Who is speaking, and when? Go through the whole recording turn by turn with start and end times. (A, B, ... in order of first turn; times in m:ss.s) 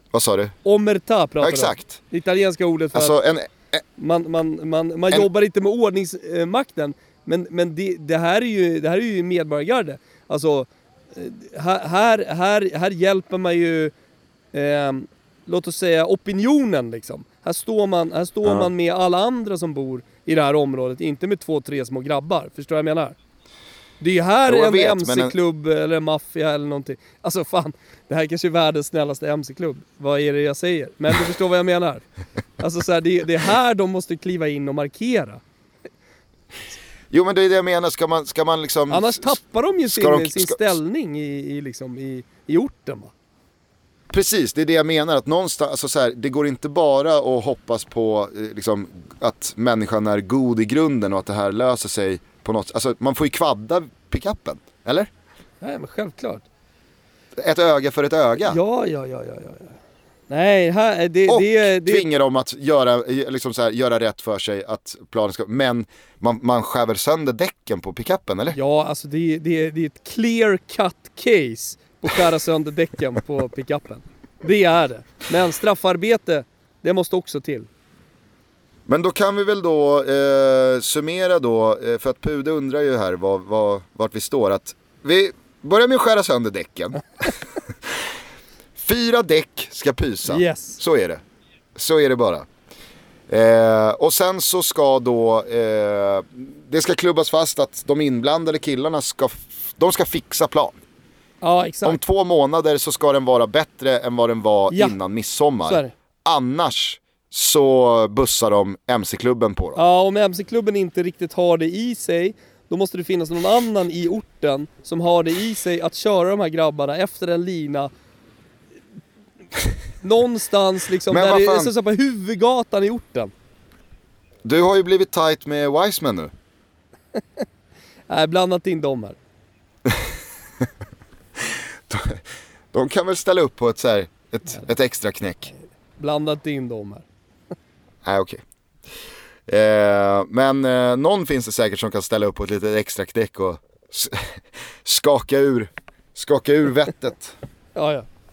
0:00.1-0:00.6 A
0:00.6-0:03.2 B
0:01.4-0:02.0 A
0:03.0-0:03.8 A
0:04.0-0:13.9 B
0:14.5-0:23.2 B
0:18.4-0:18.7 A
0:24.0-0:32.0 B
0:24.5-0:25.4 A
0:32.6-0:35.4 B
0:37.1-0:39.4 A
0:38.9-0:43.1 B
0:39.9-0:40.8 A
0:44.1-0:55.1 A
0:55.6-0:56.4 B
0:57.4-0:58.6 A
0:58.4-0:59.8 B
1:00.3-1:02.1 B
1:01.3-1:08.6 A
1:08.5-1:17.7 B
1:18.9-1:28.1 A
1:28.8-1:31.2 A
1:30.3-1:30.8 B
1:31.8-1:32.5 A
1:33.3-1:40.8 A
1:41.4-1:42.0 B
1:41.8-1:49.8 A
1:44.7-1:45.0 B
1:45.6-1:45.9 B
1:49.8-1:57.9 B
2:00.0-2:03.3 B
2:01.1-2:01.7 A
2:04.4-2:06.3 A
2:08.1-2:09.2 B
2:11.9-2:12.2 A
2:12.7-2:15.5 A
2:16.0-2:17.0 B
2:18.0-2:18.4 A
2:19.5-2:27.4 A
2:27.8-2:28.1 B